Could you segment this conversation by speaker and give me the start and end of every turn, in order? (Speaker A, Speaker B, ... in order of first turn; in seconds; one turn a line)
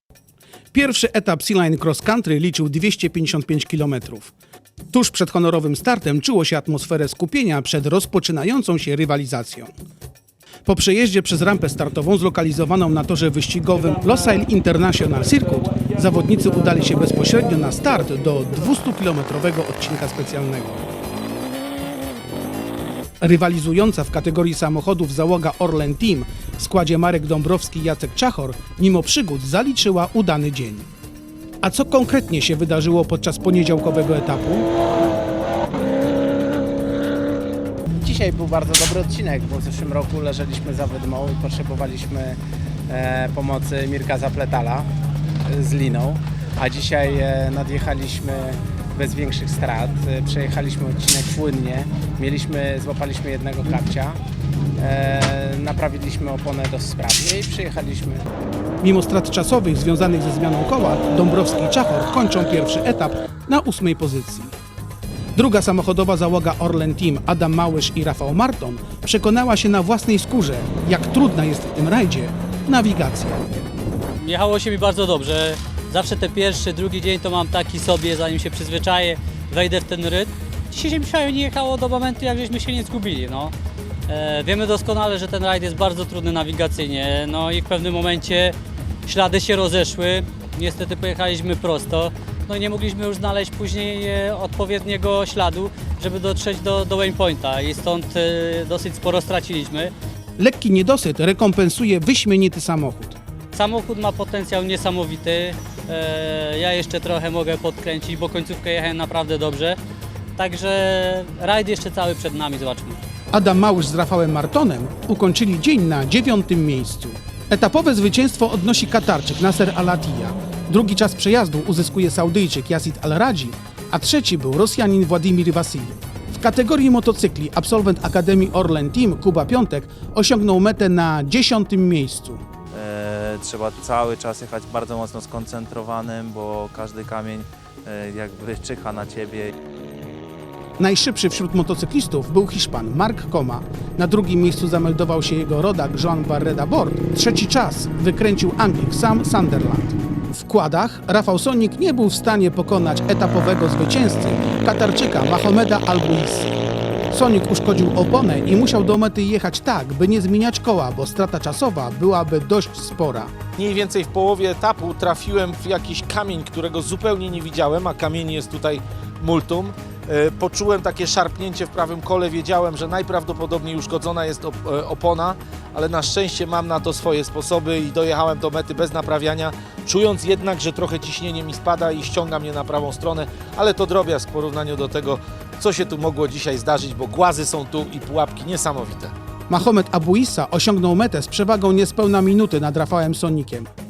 Speaker A: 0.7-4.3
Speaker A: 4.9-9.7
Speaker A: 10.6-20.8
Speaker A: 23.2-30.9
Speaker A: 31.6-34.7
Speaker B: 38.0-42.4
Speaker B: 42.9-44.9
Speaker B: 45.5-54.2
Speaker B: 54.8-58.3
Speaker A: 58.8-64.5
Speaker A: 65.3-73.4
Speaker C: 74.2-83.5
Speaker C: 84.1-99.9
Speaker A: 100.4-103.2
Speaker C: 103.5-109.8
Speaker C: 110.3-113.0
Speaker A: 113.3-132.4
Speaker D: 132.7-139.5
Speaker A: 140.8-156.5
Speaker A: 157.1-163.3
Speaker E: 163.6-189.1
Speaker A: 189.5-193.7